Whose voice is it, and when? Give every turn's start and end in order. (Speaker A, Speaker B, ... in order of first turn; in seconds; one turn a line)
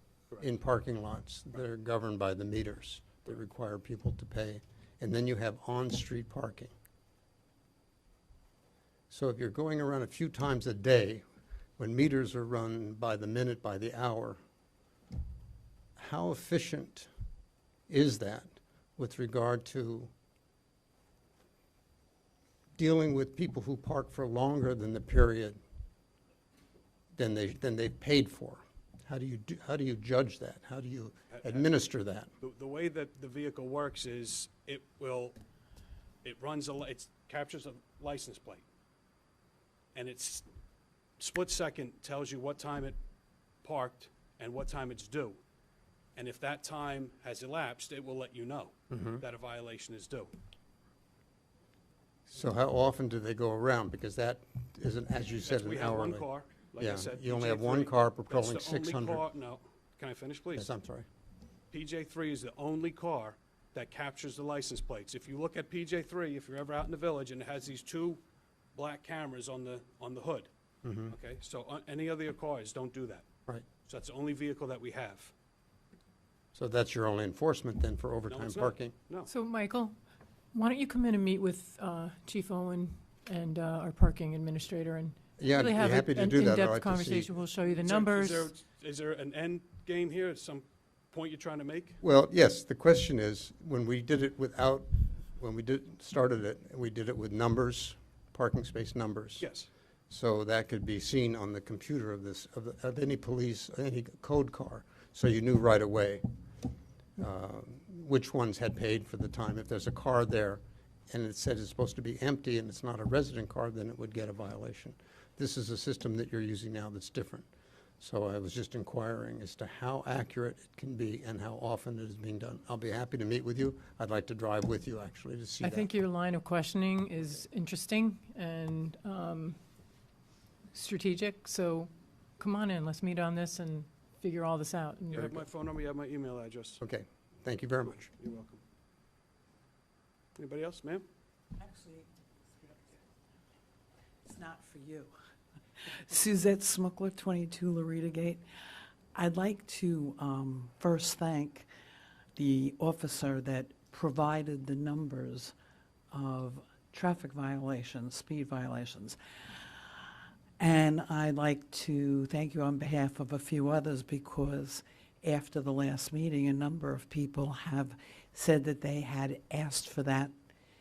Speaker A: 0.4-6.7
Speaker A: 9.1-11.2
Speaker A: 11.8-14.4
Speaker A: 16.0-17.1
Speaker A: 17.9-20.1
Speaker A: 22.8-25.6
Speaker A: 27.1-32.3
Speaker B: 31.3-31.7
Speaker B: 32.4-35.4
Speaker B: 36.2-38.6
Speaker B: 39.9-40.4
Speaker B: 41.2-43.0
Speaker B: 43.6-45.4
Speaker B: 46.2-50.3
Speaker A: 48.9-49.2
Speaker A: 52.3-56.2
Speaker B: 55.4-60.7
Speaker A: 56.8-59.2
Speaker A: 60.5-61.1
Speaker B: 61.7-68.2
Speaker B: 68.8-70.5
Speaker A: 70.8-71.1
Speaker B: 71.1-73.2
Speaker B: 73.8-75.3
Speaker A: 76.5-78.9
Speaker B: 78.3-79.3
Speaker C: 79.3-79.9
Speaker C: 80.5-88.5
Speaker A: 85.4-87.3
Speaker B: 87.7-92.0
Speaker A: 92.0-99.5
Speaker B: 99.4-99.7
Speaker A: 100.1-106.2
Speaker A: 107.2-117.5
Speaker A: 118.0-125.9
Speaker C: 125.6-129.6
Speaker C: 130.7-135.4
Speaker B: 135.1-136.8
Speaker A: 136.8-138.1
Speaker B: 137.9-138.6
Speaker B: 140.4-141.1
Speaker D: 141.6-143.0
Speaker D: 144.2-145.1
Speaker D: 145.9-148.4
Speaker D: 149.1-151.7
Speaker D: 152.4-155.5
Speaker D: 156.1-159.2
Speaker D: 160.6-170.3